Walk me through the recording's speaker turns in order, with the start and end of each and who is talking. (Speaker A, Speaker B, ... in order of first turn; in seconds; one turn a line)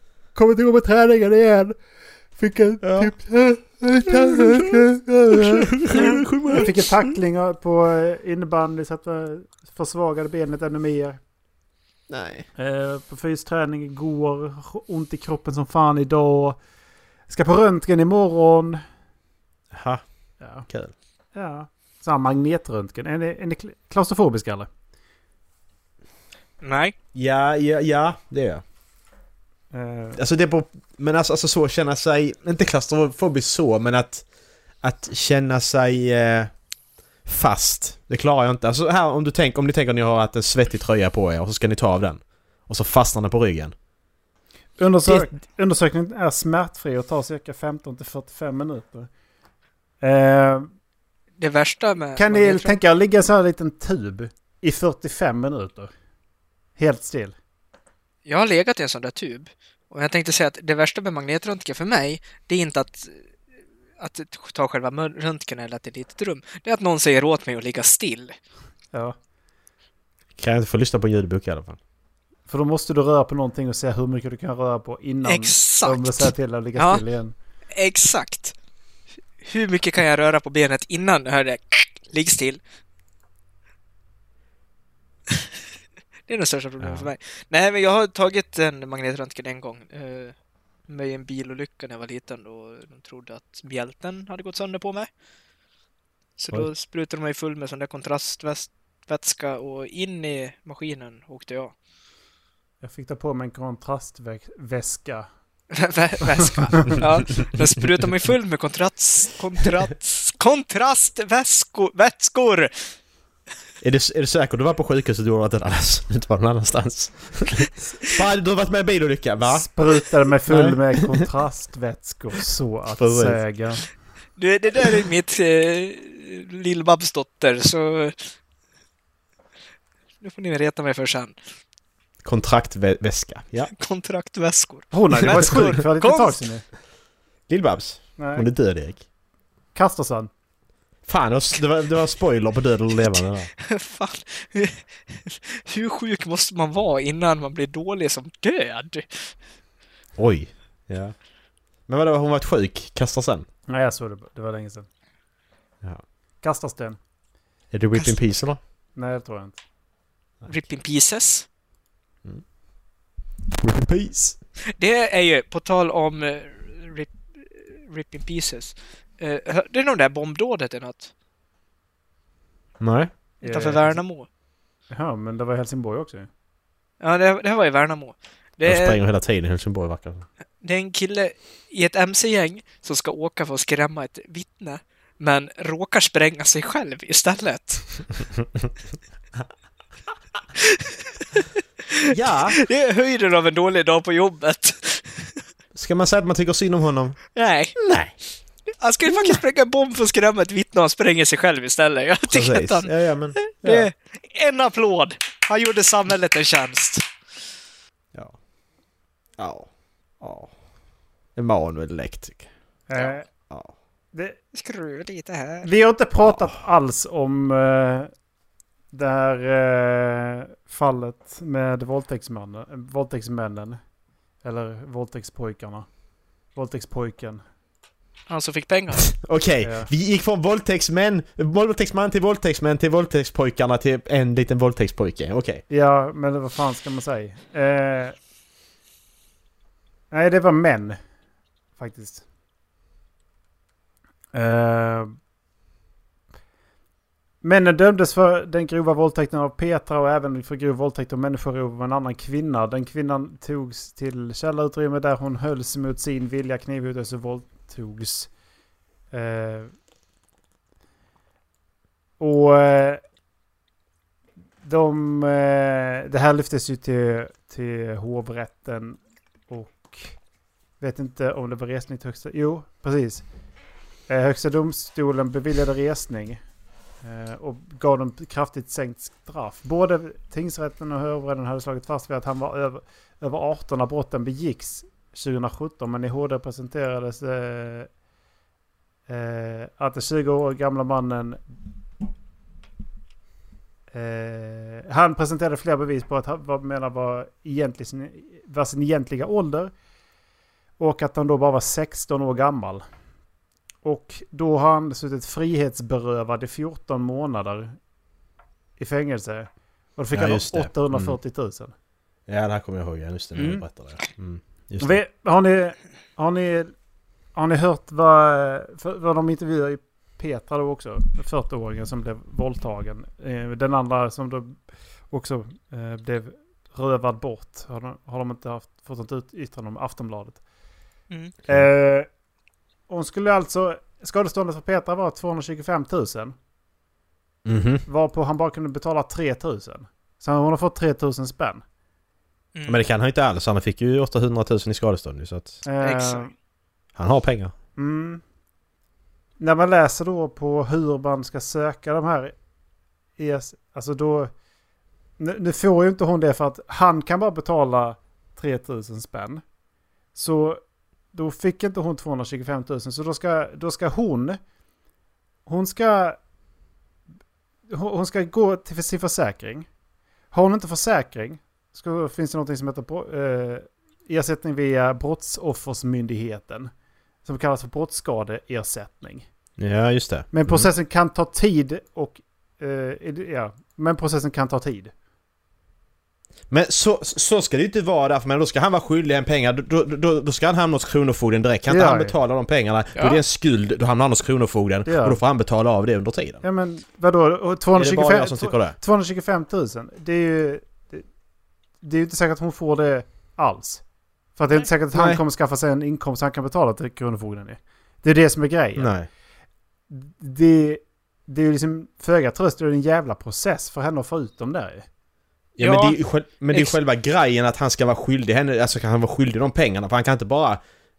Speaker A: 0.3-1.8
Speaker A: 2.4-11.2
Speaker B: 2.8-3.1
Speaker B: 4.1-6.7
Speaker B: 12.1-12.5
Speaker A: 12.6-16.6
Speaker A: 17.3-18.8
Speaker B: 19.7-20.0
Speaker A: 20.4-20.6
Speaker B: 20.7-20.9
Speaker A: 21.3-24.7
Speaker C: 26.6-26.9
Speaker B: 27.1-28.6
Speaker A: 29.7-30.2
Speaker B: 30.1-34.2
Speaker B: 34.8-36.5
Speaker B: 37.2-43.7
Speaker A: 44.8-49.1
Speaker A: 50.0-50.7
Speaker C: 51.4-52.8
Speaker A: 52.1-55.9
Speaker A: 56.8-57.4
Speaker C: 58.2-63.2
Speaker C: 64.0-68.4
Speaker B: 70.4-71.8
Speaker A: 72.5-77.3
Speaker C: 75.2-77.0
Speaker C: 77.7-78.5
Speaker C: 79.4-82.6
Speaker C: 86.3-90.3
Speaker B: 86.8-87.1
Speaker C: 90.9-95.1
Speaker C: 96.4-101.7
Speaker A: 102.8-105.3
Speaker C: 105.7-112.7
Speaker A: 106.3-106.9
Speaker B: 113.8-119.7
Speaker A: 119.4-123.8
Speaker B: 120.5-121.2
Speaker B: 123.0-123.4
Speaker C: 124.4-128.3
Speaker C: 130.2-131.3
Speaker B: 132.2-133.7
Speaker C: 133.7-136.4
Speaker A: 134.9-136.6
Speaker B: 137.5-139.0
Speaker A: 138.2-138.5
Speaker A: 139.7-140.3
Speaker B: 141.1-143.5
Speaker C: 143.0-149.3
Speaker B: 150.2-151.1
Speaker B: 151.9-153.5
Speaker A: 153.7-154.9
Speaker A: 156.4-157.0
Speaker B: 157.7-158.6
Speaker A: 158.9-159.6
Speaker C: 160.5-161.5
Speaker B: 163.6-164.4
Speaker C: 164.8-171.1
Speaker B: 172.8-173.1
Speaker A: 173.4-174.0
Speaker C: 173.4-174.3
Speaker A: 174.9-176.3
Speaker C: 177.0-179.0
Speaker B: 178.6-180.2
Speaker C: 180.6-188.1
Speaker C: 190.6-195.4
Speaker B: 192.1-192.6
Speaker B: 195.7-197.2
Speaker C: 197.3-197.8
Speaker B: 197.8-198.1
Speaker C: 198.8-207.0
Speaker B: 202.3-203.9
Speaker B: 209.4-209.7
Speaker B: 210.2-210.5
Speaker B: 211.3-212.5
Speaker A: 212.9-213.3
Speaker B: 213.5-213.7
Speaker A: 214.1-214.4
Speaker C: 214.5-215.7
Speaker A: 215.6-218.1
Speaker A: 218.9-223.8
Speaker A: 224.4-225.9
Speaker A: 226.5-227.4
Speaker C: 228.3-229.1
Speaker B: 229.1-235.6
Speaker A: 229.6-229.9
Speaker A: 235.7-238.2
Speaker A: 240.1-241.0
Speaker A: 241.8-242.2
Speaker A: 244.3-245.1
Speaker A: 247.4-258.3
Speaker A: 259.1-259.7
Speaker A: 262.2-263.0
Speaker A: 264.6-270.2
Speaker A: 270.8-273.2
Speaker A: 274.1-276.4
Speaker A: 277.0-287.9
Speaker A: 289.1-291.4
Speaker A: 293.9-299.7
Speaker A: 300.8-302.8
Speaker A: 303.8-307.8
Speaker A: 308.8-311.7
Speaker B: 310.1-311.1
Speaker B: 312.3-315.0
Speaker A: 313.3-313.6
Speaker A: 314.8-316.7
Speaker A: 317.3-330.4
Speaker C: 331.1-331.3
Speaker A: 331.5-332.1
Speaker A: 332.9-336.3
Speaker B: 337.4-337.8
Speaker A: 337.9-341.6
Speaker C: 342.5-342.8
Speaker B: 342.6-345.6
Speaker A: 345.6-346.3
Speaker C: 345.8-346.3
Speaker B: 346.9-347.5
Speaker A: 347.8-348.2
Speaker A: 349.4-352.3
Speaker A: 353.2-354.3
Speaker A: 355.2-359.4
Speaker A: 360.1-360.6
Speaker A: 361.1-364.4
Speaker A: 365.4-366.2
Speaker A: 367.7-369.7
Speaker A: 370.3-376.7
Speaker A: 377.2-379.3
Speaker B: 379.6-380.7
Speaker A: 380.3-384.9
Speaker B: 386.5-396.4
Speaker A: 391.7-392.1
Speaker C: 392.9-393.2
Speaker A: 394.9-395.2
Speaker A: 396.4-401.0
Speaker B: 397.8-398.8
Speaker A: 401.8-403.8
Speaker A: 404.4-408.9
Speaker B: 404.9-405.2
Speaker B: 408.8-409.1
Speaker A: 409.9-414.9
Speaker B: 415.6-420.6
Speaker C: 415.6-416.0
Speaker C: 416.5-416.8